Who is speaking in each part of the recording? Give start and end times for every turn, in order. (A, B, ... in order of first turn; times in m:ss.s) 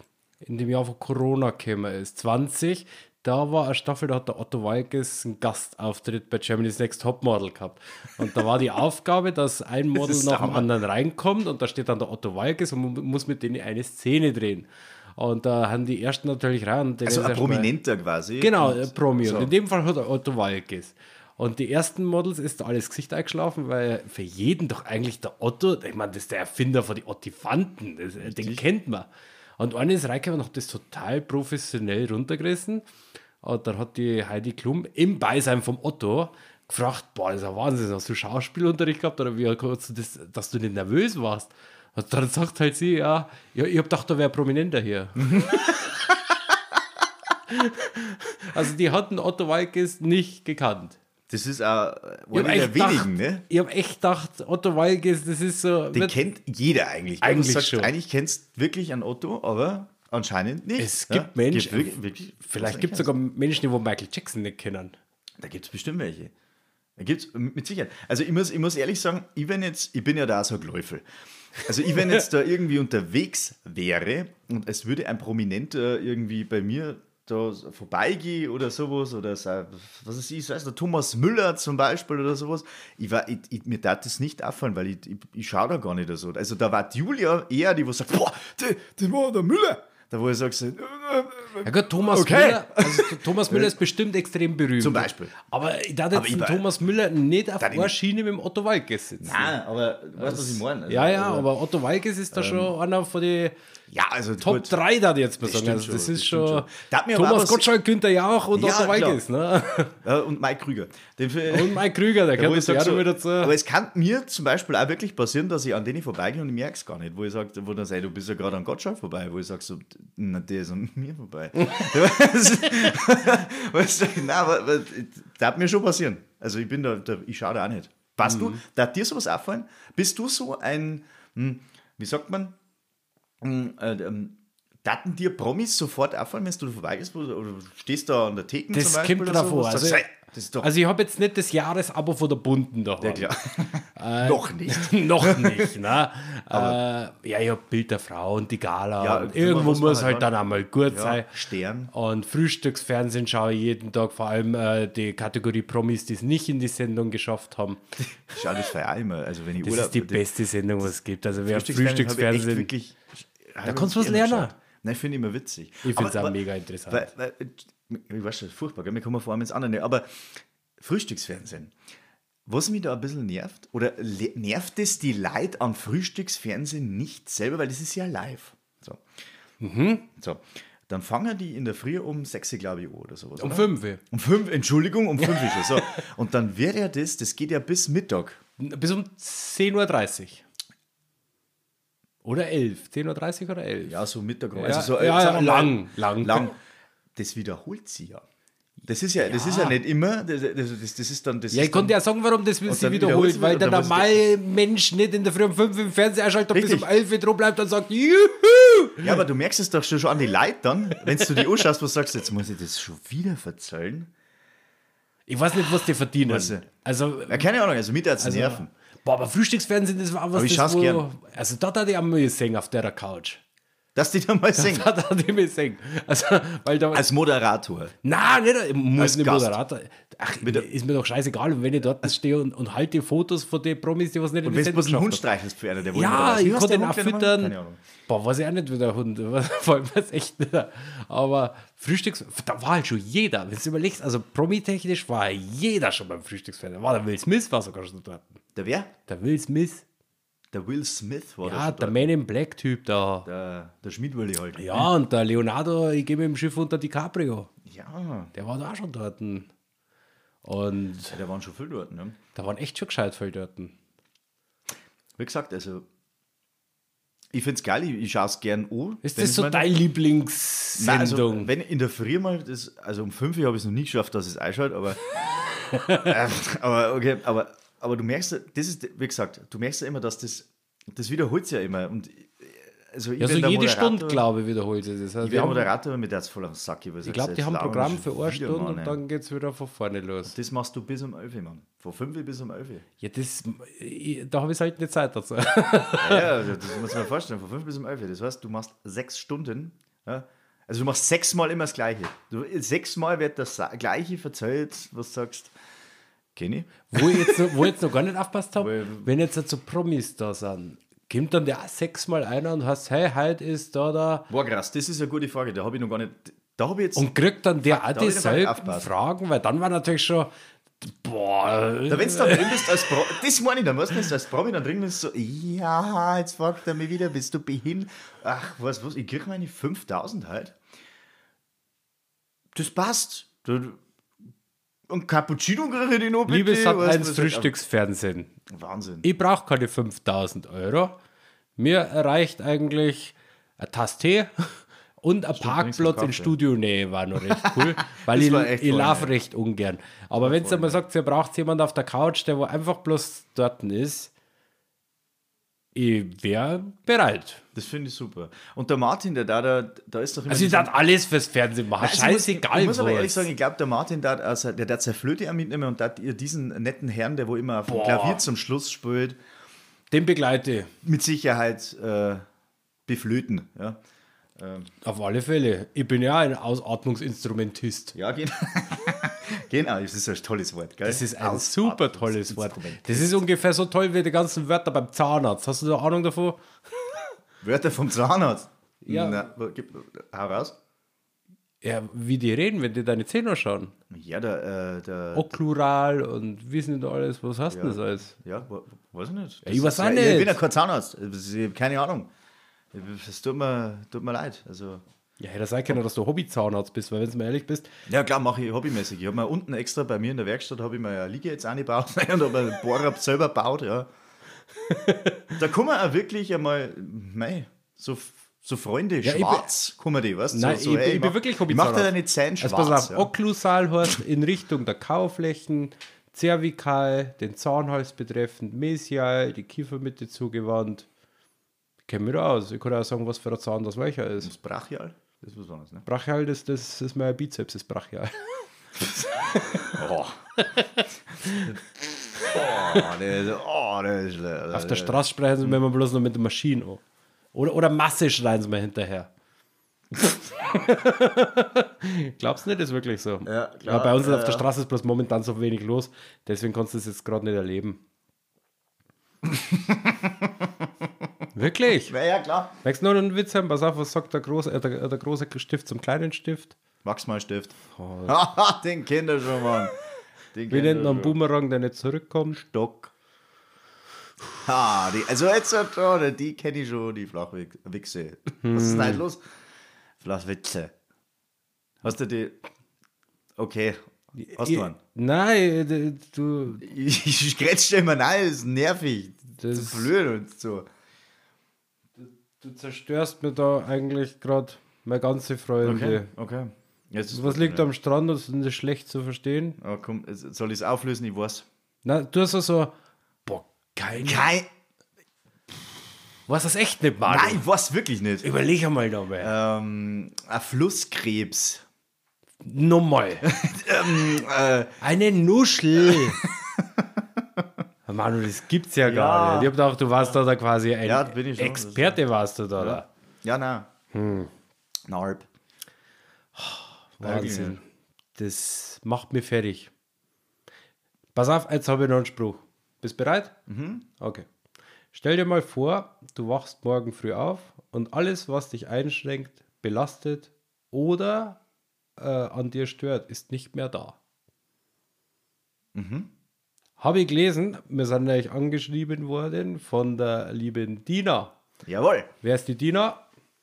0:00.4-0:17.7 A
0:10.0-0:10.7 B
0:17.1-0:19.5 B
0:18.4-0:32.9 A
0:28.2-0:28.6 B
0:33.4-0:45.8 A
0:45.2-0:45.8 B
0:47.5-0:51.0 A
0:51.3-0:53.4 B
0:52.3-0:56.2 A
0:55.9-1:03.1 B
0:57.2-0:57.9 A
1:00.8-1:01.9 A
1:02.5-1:05.0 A
1:05.4-1:06.3 B
1:07.0-1:11.0 B
1:11.6-1:33.8 B
1:31.6-1:39.6 A
1:34.8-1:35.3 B
1:36.1-1:36.7 B
1:37.6-1:37.9 B
1:39.2-1:41.5 B
1:40.2-1:43.6 A
1:42.3-1:42.7 B
1:43.9-1:44.7 B
1:44.4-1:50.0 A
1:45.4-1:47.7 B
1:48.5-1:49.2 B
1:50.0-2:12.6 B
1:51.5-1:53.5 A
2:08.2-2:08.6 A
2:13.4-2:20.7 B
2:18.7-2:20.1 A
2:20.6-2:23.3 A
2:23.0-2:25.8 B
2:24.0-2:31.3 A
2:26.5-2:26.8 B
2:29.0-2:30.3 B
2:30.9-2:31.9 B
2:31.9-2:37.8 A
2:38.2-2:40.2 B
2:39.6-2:42.7 A
2:41.5-2:51.7 B
2:43.6-2:44.5 A
2:45.8-2:47.1 A
2:52.5-2:59.0 B
2:59.6-3:00.1 A
3:00.2-3:08.4 B
3:03.4-3:04.0 A
3:05.2-3:05.8 A
3:08.6-3:10.4 A
3:12.2-3:14.0 A
3:13.8-3:16.6 B
3:14.6-3:16.5 A
3:17.2-3:18.2 B
3:18.9-3:22.0 B
3:19.2-3:19.8 A
3:21.5-3:29.2 A
3:22.7-3:24.2 B
3:26.5-3:26.9 B
3:29.0-3:34.1 B
3:31.2-3:31.4 A
3:35.3-3:37.5 A
3:36.2-3:36.7 B
3:37.3-3:38.7 B
3:38.2-3:43.4 A
3:40.3-3:41.1 B
3:44.0-3:44.9 B
3:44.6-3:47.1 A
3:46.9-3:47.9 B
3:48.0-3:55.2 A
3:49.0-3:49.6 B
3:50.4-3:50.7 B
3:54.4-3:57.8 B
3:55.9-3:57.6 A
3:58.1-4:08.4 A
4:08.6-4:08.9 B
4:09.1-4:09.8 A
4:10.5-4:12.1 B
4:11.4-4:13.3 A
4:13.2-4:14.9 B
4:14.6-4:17.5 A
4:17.6-4:18.3 B
4:18.3-4:19.5 A
4:20.4-4:21.2 A
4:21.1-4:22.2 B
4:22.4-4:23.7 A
4:25.2-4:25.8 B
4:27.3-4:29.7 B
4:29.0-4:31.5 A
4:30.8-4:35.2 B
4:35.7-4:36.1 A
4:35.8-4:44.2 B
4:43.2-4:45.7 A
4:45.2-4:49.0 B
4:47.0-4:50.4 A
4:50.3-4:52.9 B
4:53.0-4:56.8 A
4:56.0-5:05.5 B
5:06.4-5:07.6 B
5:06.9-5:14.3 A
5:08.6-5:09.1 B
5:14.3-5:17.1 B
5:17.0-5:23.1 A
5:17.6-5:18.9 B
5:21.9-5:30.6 B
5:32.6-5:33.8 B
5:34.9-5:37.5 B
5:36.3-5:38.3 A
5:38.5-5:39.1 B
5:39.0-5:41.0 A
5:41.6-5:54.1 A
5:45.4-5:46.4 B
5:47.3-5:49.2 B
5:50.2-5:50.8 B
5:55.8-5:57.4 A
5:57.6-6:00.7 B
6:00.3-6:03.3 A
6:01.8-6:09.2 B
6:07.7-6:08.2 A
6:09.9-6:10.7 A
6:10.8-6:12.2 B
6:12.9-6:13.8 B
6:14.4-6:14.7 B
6:14.8-6:18.0 A
6:18.0-6:23.2 B
6:20.8-6:27.0 A
6:27.4-6:30.6 B
6:28.8-6:29.3 A
6:31.6-6:33.7 A
6:33.9-6:35.4 B
6:35.2-6:38.1 A
6:37.5-6:42.1 B
6:39.4-6:40.4 A
6:42.7-6:44.8 B
6:45.2-6:47.7 A
6:47.9-6:53.9 B
6:54.6-6:55.3 A
6:55.4-7:03.1 B
6:59.0-6:59.5 A
7:00.3-7:10.9 A
7:11.9-7:14.3 A
7:14.2-7:15.9 B
7:15.9-7:18.3 A
7:18.8-7:19.8 A
7:19.7-7:20.2 B
7:21.2-7:21.6 A
7:22.2-7:25.6 B
7:22.2-7:23.0 A
7:24.5-7:26.8 A
7:27.3-7:29.1 A
7:30.0-7:37.8 A
7:33.2-7:34.5 B
7:39.2-7:40.5 B
7:41.4-7:41.9 A
7:41.8-7:42.6 B
7:42.6-7:46.6 A
7:46.8-7:49.8 B
7:47.8-7:48.1 A
7:50.3-7:51.2 B
7:50.5-7:52.4 A
7:52.4-7:52.9 B
7:54.4-7:59.2 B
7:58.4-7:59.0 A
8:00.0-8:00.7 B
8:01.8-8:02.4 B
8:03.4-8:03.8 B
8:04.2-8:06.6 A
8:04.3-8:04.8 B
8:06.6-8:10.7 B
8:09.4-8:09.9 A
8:12.0-8:16.1 A
8:15.6-8:17.7 B
8:17.1-8:19.6 A
8:19.6-8:21.5 B
8:21.8-8:22.7 A
8:23.3-8:24.3 A
8:24.0-8:24.5 B
8:26.3-8:27.4 A
8:27.1-8:28.3 B
8:28.2-8:29.3 A
8:29.2-8:31.6 B
8:32.4-8:33.2 A
8:33.2-8:34.8 B
8:34.8-8:36.2 A
8:36.2-8:36.8 B
8:37.9-8:42.8 A
8:38.9-8:40.2 B
8:40.8-8:42.0 B
8:42.6-8:43.7 B
8:43.9-8:44.3 A
8:44.9-8:45.3 B
8:46.4-8:47.6 A
8:47.0-8:47.6 B
8:48.2-8:49.7 A
8:51.2-8:53.4 A
8:53.5-8:53.9 B
8:54.0-8:54.3 A
8:54.9-9:01.4 A
9:02.0-9:04.0 A
9:05.8-9:06.1 B
9:06.8-9:11.3 A
9:11.6-9:12.1 B
9:12.2-9:13.0 A